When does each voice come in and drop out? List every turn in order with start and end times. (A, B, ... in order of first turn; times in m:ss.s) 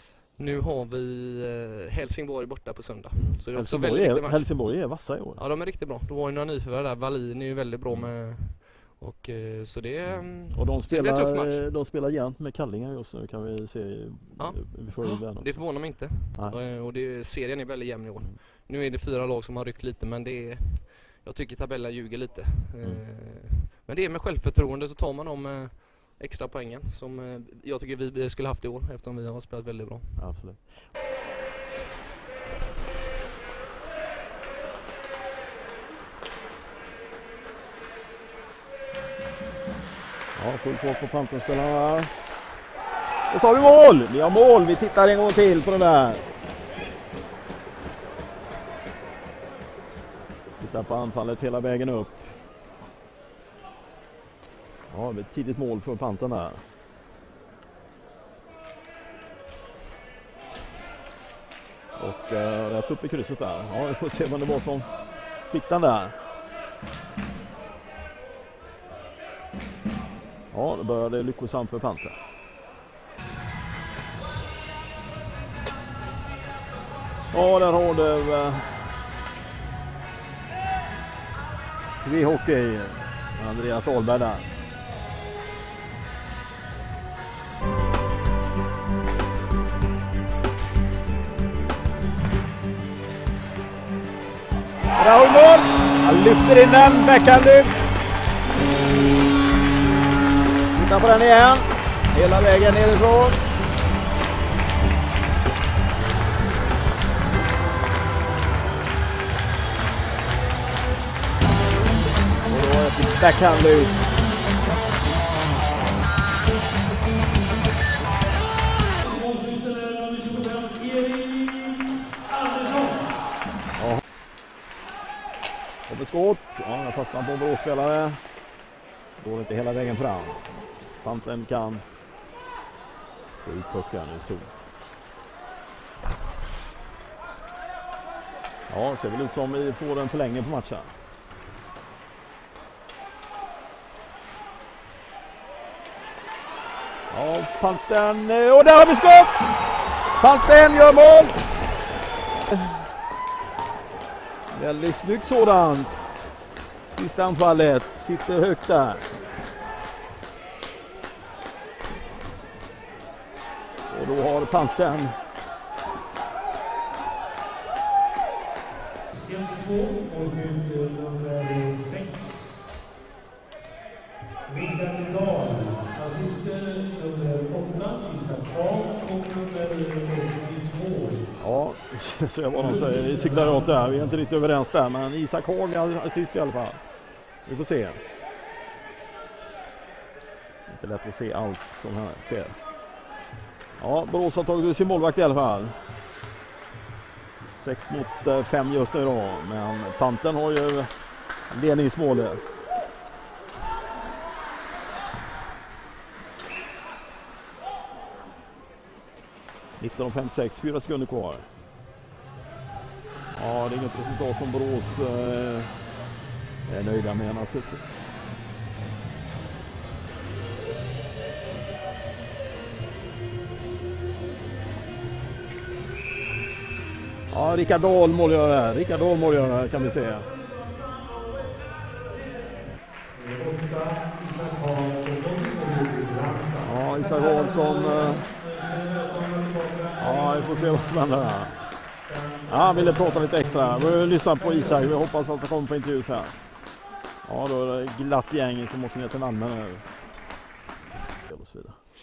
0:00.3-0:11.7 A
0:03.1-0:05.4 B
0:07.9-0:08.1 B
0:10.4-0:15.8 B
0:14.4-0:30.4 A
0:16.3-0:16.6 B
0:30.2-0:30.8 B
0:40.3-0:42.1 B
0:43.3-0:46.3 B
0:50.6-0:52.3 B
0:54.9-0:56.6 B
1:02.0-1:04.9 B
1:05.5-1:06.2 B
1:10.5-1:12.2 B
1:17.3-1:18.9 B
1:21.9-1:24.5 B
1:35.0-1:37.7 B
1:40.7-1:43.4 B
1:52.5-1:54.0 B
1:59.0-2:03.1 C
2:03.8-2:04.0 B
2:05.9-2:08.2 B
2:09.2-2:11.8 B
2:13.4-2:14.6 B
2:18.7-2:20.9 B
2:27.1-2:29.5 B
2:30.2-2:31.4 B
2:34.5-2:36.0 B
2:36.9-2:39.1 B
2:43.9-2:45.1 B
2:49.2-2:52.5 C
2:54.4-3:01.2 C
3:01.4-3:06.8 B
3:03.5-3:03.7 C
3:07.4-3:08.0 B
3:10.7-3:12.6 B
3:13.8-3:15.8 B
3:17.4-3:20.9 B
3:21.5-3:22.4 B
3:29.8-3:31.5 B
3:33.3-3:35.8 B
3:36.7-3:38.0 B
3:47.3-3:50.3 B
3:53.1-4:01.1 C
3:56.6-3:58.2 B
4:00.0-4:01.5 B
4:02.1-4:04.6 C
4:02.5-4:06.3 B
4:07.2-4:09.8 B
4:11.2-4:11.8 B